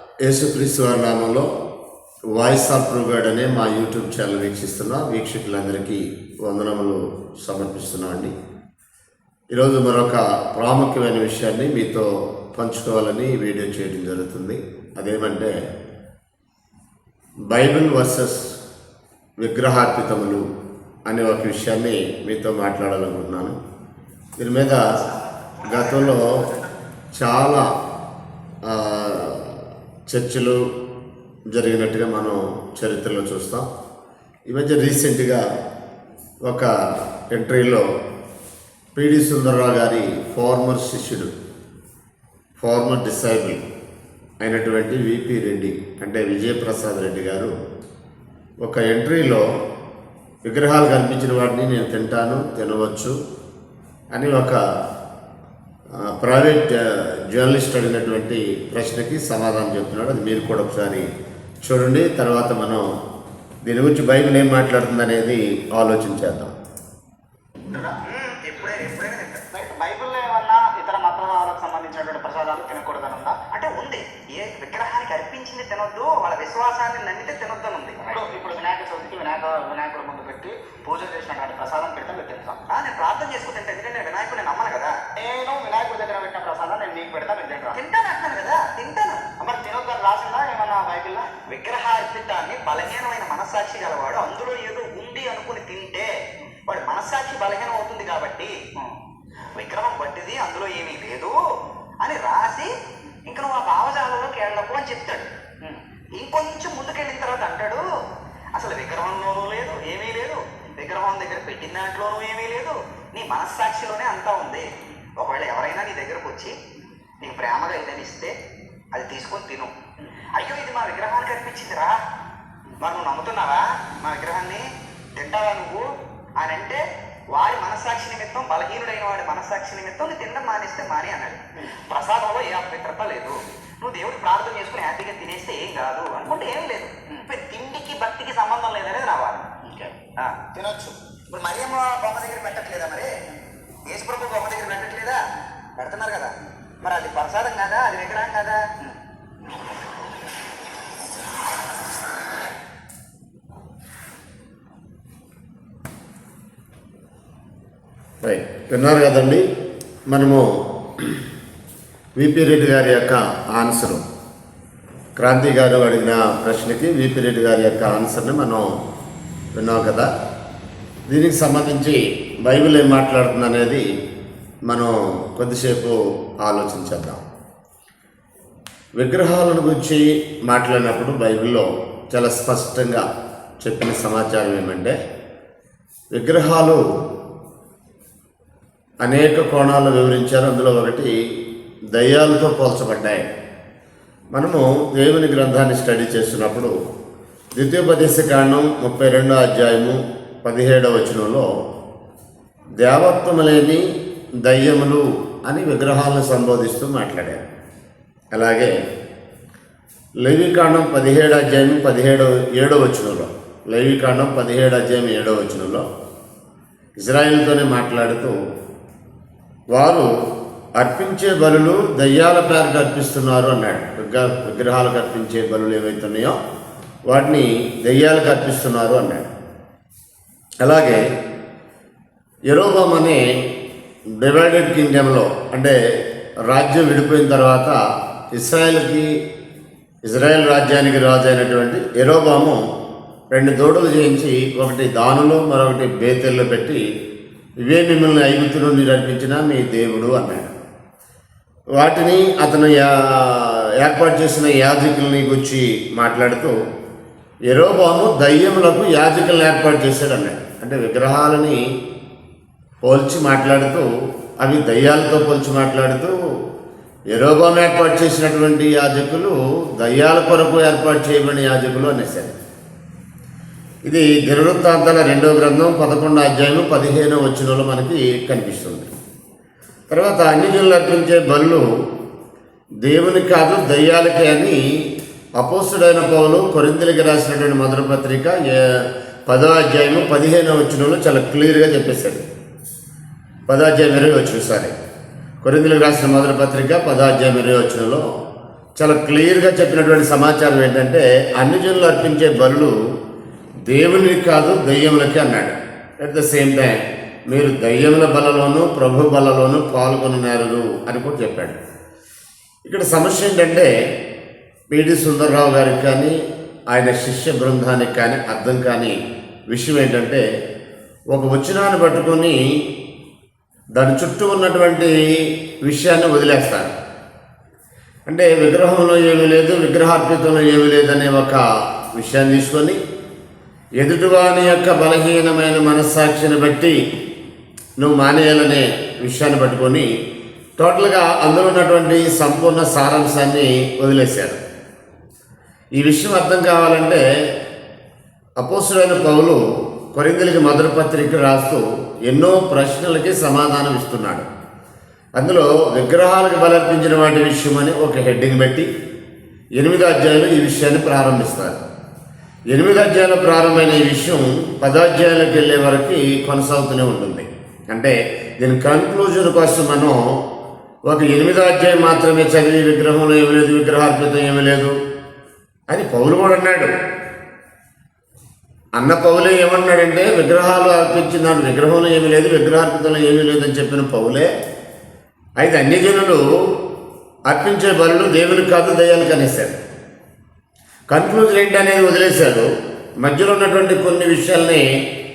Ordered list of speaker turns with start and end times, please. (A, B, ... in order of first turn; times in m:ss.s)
0:00.2-0:01.5 A
0:02.3-0:08.3 A
0:09.5-0:15.5 A
0:17.5-0:18.6 A
0:19.4-0:20.4 A
0:21.1-0:23.6 A
0:24.4-0:24.8 A
0:25.6-0:26.5 A
0:27.1-0:27.7 A
0:28.6-0:30.6 A
0:31.5-0:33.7 A
0:34.5-0:35.4 A
0:36.4-0:37.8 A
0:39.0-0:41.3 A
0:42.6-0:43.6 A
0:44.4-0:47.5 A
0:48.6-0:49.4 A
0:50.4-0:53.2 A
0:54.1-0:54.6 A
0:56.1-1:01.1 A
1:01.6-1:02.9 A
1:03.6-1:06.5 A
1:07.7-1:08.6 B
1:08.2-1:09.5 C
1:09.5-1:13.5 B
1:13.5-1:18.0 C
1:17.9-1:22.7 B
1:22.7-1:25.0 C
1:25.1-1:27.9 B
1:27.7-1:29.3 C
1:29.4-1:32.8 B
1:31.6-1:35.9 C
1:36.7-1:37.0 B
1:36.8-1:38.6 C
1:39.6-1:41.4 C
1:42.0-1:42.7 C
1:43.3-1:45.3 C
1:46.2-1:47.8 C
1:48.6-1:54.7 C
1:55.2-1:56.6 C
1:57.2-1:58.3 C
1:58.9-1:59.7 C
2:00.4-2:02.0 C
2:02.8-2:04.6 C
2:05.2-2:05.8 C
2:06.4-2:06.8 C
2:07.3-2:11.4 C
2:11.9-2:19.5 C
2:19.5-2:22.0 B
2:21.6-2:23.1 C
2:23.9-2:25.2 C
2:25.8-2:26.3 C
2:26.8-2:28.6 C
2:38.2-2:39.4 A
2:40.1-2:40.5 A
2:42.2-2:44.0 A
2:45.2-2:48.7 A
2:49.5-2:50.1 A
2:51.1-2:53.8 A
2:54.7-2:57.2 A
2:59.0-3:03.1 A
3:03.6-3:05.0 A
3:06.1-3:06.8 A
3:09.0-3:11.1 A
3:11.9-3:13.3 A
3:14.3-3:16.7 A
3:17.6-3:21.5 A
3:22.8-3:23.8 A
3:24.4-3:27.5 A
3:28.3-3:28.8 A
3:30.2-3:35.9 A
3:37.0-3:38.4 A
3:39.7-3:40.1 A
3:40.8-3:46.4 A
3:47.1-3:49.3 A
3:50.6-3:51.0 A
3:52.5-3:53.2 A
3:54.2-3:55.8 A
3:56.5-3:57.8 A
3:58.3-3:59.1 A
4:00.0-4:02.6 A
4:03.3-4:06.8 A
4:07.7-4:10.5 A
4:11.8-4:16.6 A
4:17.5-4:21.6 A
4:22.8-4:23.9 A
4:24.4-4:26.2 A
4:27.1-4:32.4 A
4:33.8-4:38.9 A
4:39.9-4:41.7 A
4:42.8-4:44.6 A
4:45.4-4:52.2 A
4:53.5-4:54.7 A
4:55.4-4:58.0 A
4:58.8-5:02.8 A
5:03.7-5:06.8 A
5:07.3-5:11.6 A
5:12.6-5:13.7 A
5:14.7-5:16.2 A
5:16.7-5:19.0 A
5:19.5-5:20.2 A
5:21.1-5:22.4 A
5:23.8-5:26.7 A
5:28.1-5:32.8 A
5:33.8-5:36.8 A
5:37.8-5:39.9 A
5:40.6-5:44.4 A
5:45.8-5:47.0 A
5:48.4-5:54.3 A
5:55.2-5:58.7 A
5:59.6-6:01.6 A
6:02.5-6:10.0 A
6:10.9-6:14.7 A
6:15.7-6:16.7 A
6:18.8-6:24.3 A
6:25.4-6:26.2 A
6:27.3-6:29.6 A
6:30.9-6:32.5 A
6:33.0-6:34.6 A